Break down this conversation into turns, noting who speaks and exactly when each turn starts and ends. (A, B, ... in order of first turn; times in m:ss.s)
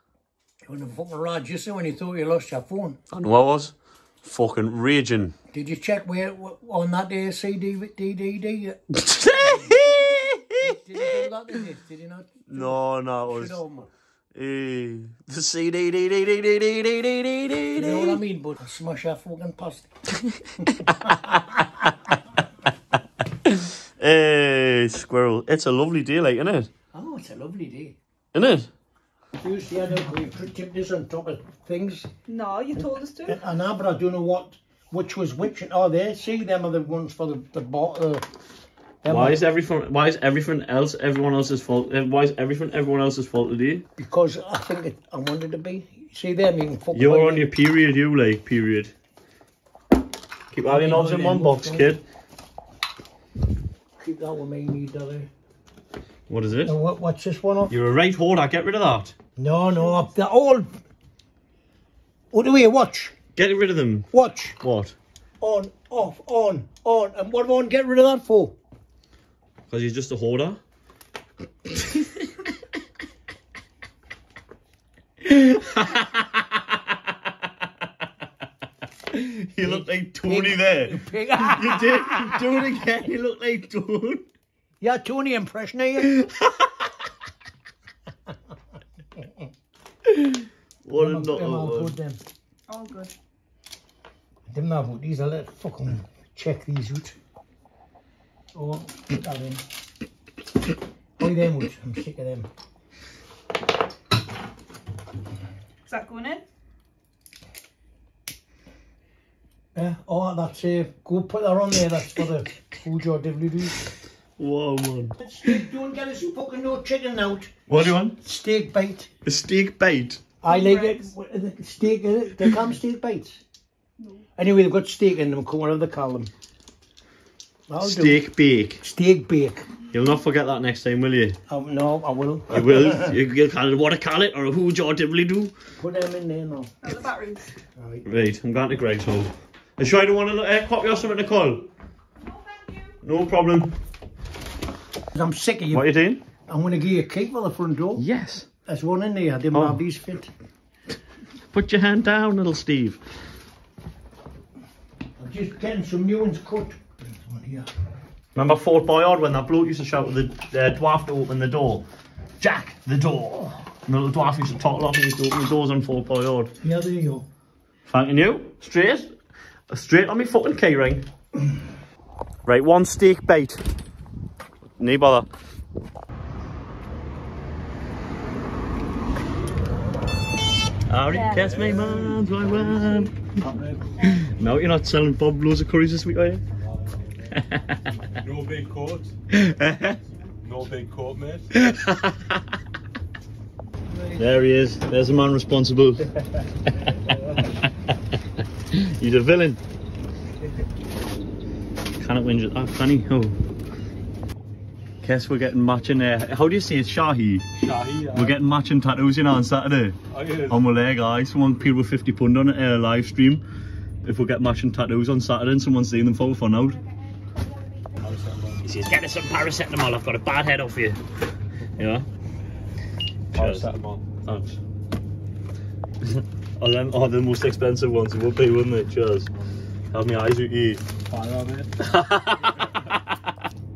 0:00.6-0:03.0 A
0:03.1-0:05.3 B
0:05.5-0:08.8 A
0:08.9-0:11.2 B
0:09.3-0:09.8 A
0:10.6-0:13.9 A
0:12.5-0:13.6 B
0:14.3-0:18.2 B
0:17.8-0:19.9 A
0:20.6-0:21.6 B
0:23.4-0:26.7 B
0:26.9-0:28.0 A
0:28.3-0:28.7 B
0:29.4-0:32.1 A
0:32.3-0:33.4 C
0:32.8-0:38.2 A
0:39.0-0:39.4 A
0:39.1-0:43.8 B
0:44.0-0:47.5 A
0:46.9-0:48.9 B
0:50.5-0:52.0 B
0:50.6-0:52.0 A
0:54.0-0:55.3 A
0:56.3-0:56.7 B
0:56.6-0:57.7 A
0:57.7-0:59.1 B
0:59.4-1:00.7 A
1:02.3-1:03.1 A
1:03.4-1:04.1 B
1:04.1-1:04.6 A
1:04.6-1:04.9 B
1:05.4-1:08.6 A
1:09.7-1:10.6 B
1:11.8-1:12.2 B
1:15.2-1:16.8 B
1:19.1-1:24.2 B
1:19.6-1:22.5 A
1:24.8-1:26.1 A
1:26.0-1:26.9 B
1:30.1-1:32.0 B
1:31.0-1:32.2 A
1:32.7-1:33.1 C
1:34.5-1:37.2 A
1:38.5-1:39.6 A
1:41.2-1:42.5 A
1:45.9-1:46.4 C
1:49.7-1:53.8 A
1:54.4-1:55.2 B
1:55.2-1:59.1 A
1:57.7-1:58.2 B
1:59.2-2:00.2 B
2:00.4-2:03.4 A
2:00.4-2:01.1 C
2:04.4-2:06.3 A
2:07.7-2:08.2 A
2:07.8-2:08.8 B
2:08.8-2:09.6 A
2:09.9-2:11.4 B
2:11.5-2:13.2 A
2:12.5-2:15.5 B
2:15.8-2:16.7 A
2:16.8-2:17.5 C
2:17.8-2:18.1 A
2:18.0-2:21.7 B
2:22.2-2:23.0 C
2:23.0-2:23.8 B
2:25.1-2:25.9 A
2:25.7-2:26.2 B
2:26.5-2:28.0 A
2:28.0-2:28.5 B
2:28.6-2:30.3 A
2:29.5-2:29.8 B
2:31.5-2:33.0 B
2:35.2-2:37.7 A
2:38.3-2:41.8 B
2:42.4-2:46.5 B
2:46.6-2:47.2 A
2:47.9-2:49.1 B
2:49.7-2:51.1 B
2:52.4-2:53.6 B
2:54.8-2:55.3 B
3:00.9-3:03.2 B
3:01.3-3:04.1 D
3:04.0-3:06.4 B
3:06.6-3:07.3 D
3:07.3-3:07.9 B
3:08.1-3:09.1 D
3:09.3-3:10.0 B
3:10.4-3:11.5 D
3:11.6-3:12.4 B
3:13.9-3:14.4 A
3:14.2-3:16.1 B
3:18.7-3:19.6 B
3:22.0-3:23.3 B
3:25.0-3:27.5 B
3:27.6-3:28.4 D
3:28.1-3:30.0 B
3:30.1-3:30.6 D
3:30.5-3:33.4 B
3:34.0-3:36.8 B
3:38.0-3:38.6 D
3:38.6-3:41.0 B
3:41.8-3:42.0 B
3:43.3-3:44.1 D
3:43.3-3:44.6 B
3:46.0-3:49.3 B
3:49.9-3:50.8 B
3:51.1-3:51.8 D
3:51.8-3:53.0 B